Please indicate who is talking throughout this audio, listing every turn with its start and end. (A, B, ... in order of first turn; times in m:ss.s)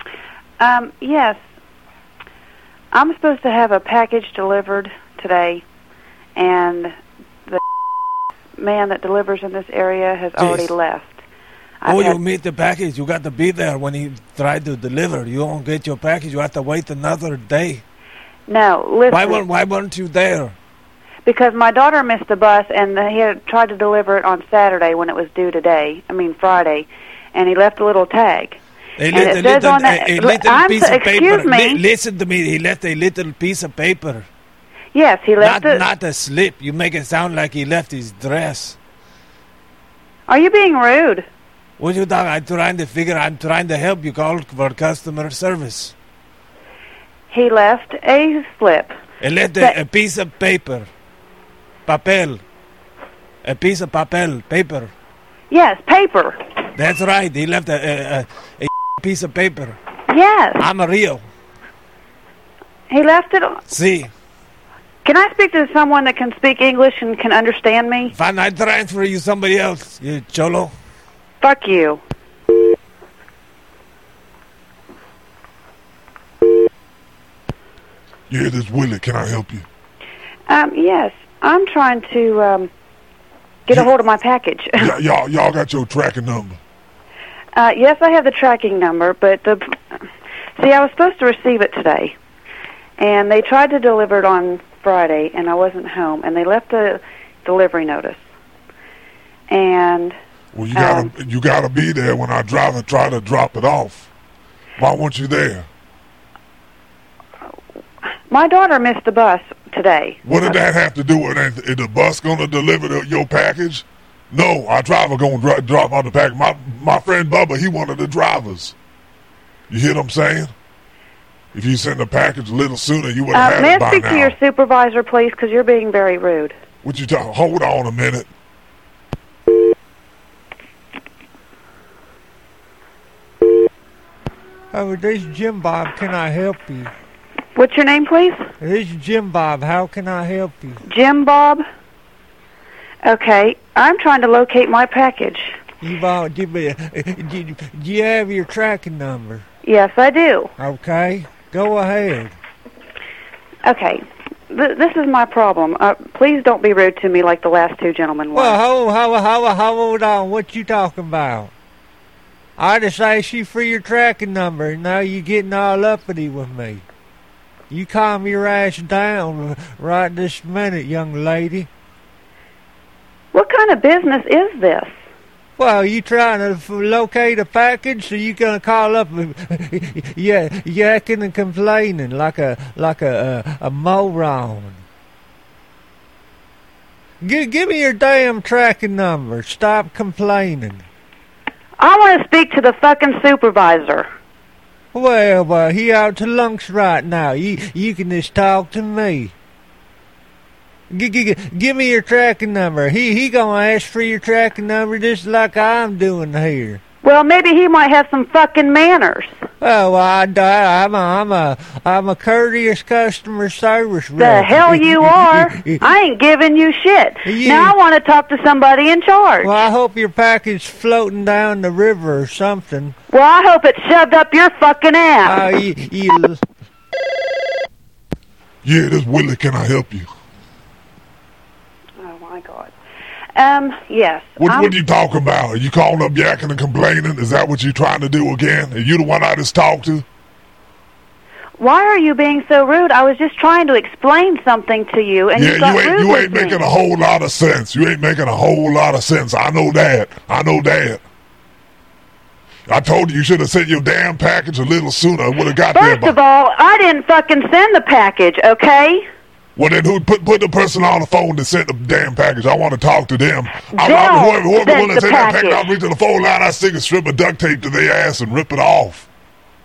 0:00.6-0:01.4 A
0:02.9-0:05.6 A
0:06.4-0:06.9 A
0:08.6-0:11.2 A
0:10.4-0:10.7 B
0:11.8-0:12.2 A
0:11.9-0:17.8 B
0:18.5-0:19.4 A
0:19.1-0:20.5 B
0:21.2-0:28.6 A
0:29.0-0:34.2 B
0:29.1-0:31.8 A
0:34.9-0:35.8 A
0:35.4-0:38.8 B
0:40.3-0:41.2 A
0:41.8-0:45.9 B
0:47.3-0:48.9 A
0:49.2-0:50.9 B
0:51.9-0:52.4 B
0:53.4-0:54.9 B
0:55.5-0:56.4 A
0:56.8-0:59.8 B
1:00.1-1:00.6 A
1:00.6-1:01.2 B
1:02.9-1:03.6 A
1:03.7-1:04.1 B
1:05.0-1:08.1 A
1:08.1-1:10.7 B
1:11.4-1:12.0 A
1:18.3-1:19.6 C
1:20.5-1:22.7 A
1:23.7-1:24.9 A
1:24.8-1:26.6 C
1:27.5-1:30.0 A
1:30.6-1:32.2 A
1:33.0-1:38.2 A
1:39.5-1:40.1 A
1:40.5-1:44.1 C
1:40.8-1:41.1 A
1:44.8-1:45.7 C
1:48.3-1:50.6 A
1:50.2-1:58.8 C
1:59.7-2:00.5 C
2:01.5-2:04.3 C
2:03.3-2:06.5 A
2:06.8-2:08.3 C
2:14.7-2:16.9 D
2:17.6-2:18.4 A
2:18.6-2:20.8 D
2:20.8-2:21.6 A
2:23.0-2:25.6 A
2:25.8-2:29.4 D
2:29.6-2:30.5 A
2:30.6-2:32.3 D
2:33.6-2:38.6 A
2:38.3-2:41.5 D
2:42.6-2:46.8 D
2:47.7-2:51.7 D
2:53.3-2:54.9 A
2:55.6-3:04.8 D
3:07.2-3:10.8 D
3:11.8-3:14.1 A
3:14.9-3:19.3 D
3:20.9-3:26.8 D
3:27.0-3:29.3 A
3:29.6-3:35.9 D
3:34.2-3:39.5 A
3:37.2-3:37.8 D
3:39.4-3:42.9 D
3:43.1-3:45.4 A
3:45.2-3:46.4 D
3:48.6-3:50.1 C
3:52.0-3:52.7 A
3:53.4-3:54.8 A
3:54.4-4:00.0 C
4:01.6-4:06.6 A
4:05.3-4:11.0 C
4:12.7-4:16.2 C
4:15.7-4:19.0 A
4:19.6-4:29.1 C
4:23.7-4:25.7 A